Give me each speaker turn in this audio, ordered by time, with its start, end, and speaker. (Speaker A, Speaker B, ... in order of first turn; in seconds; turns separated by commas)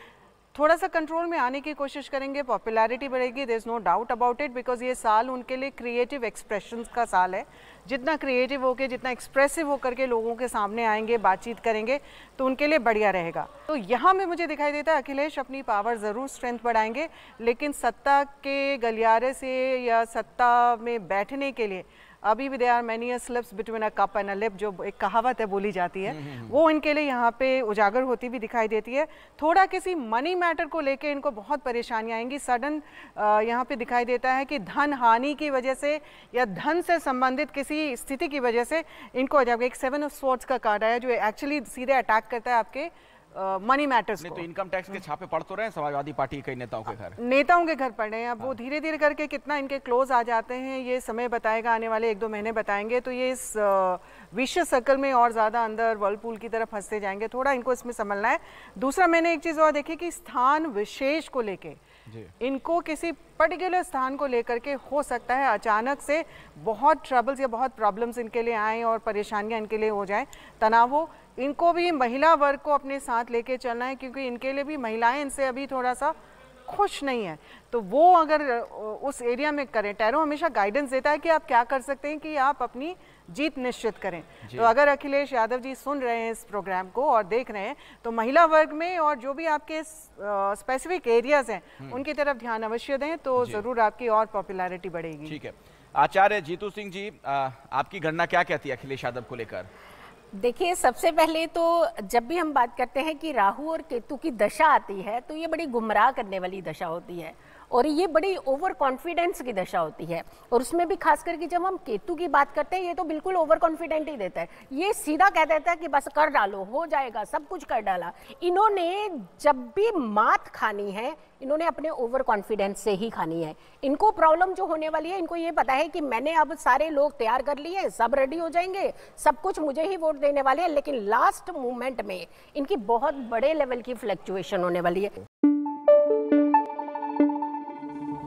Speaker A: 0.5-44.5, Speaker B: 26.1-26.6, Speaker B: 44.2-47.2, Speaker A: 47.2-61.8, Speaker B: 62.1-62.3, Speaker A: 62.4-76.2, Speaker A: 76.7-95.4, Speaker B: 84.5-84.7, Speaker B: 93.4-93.7, Speaker B: 95.3-99.7, Speaker C: 100.4-135.2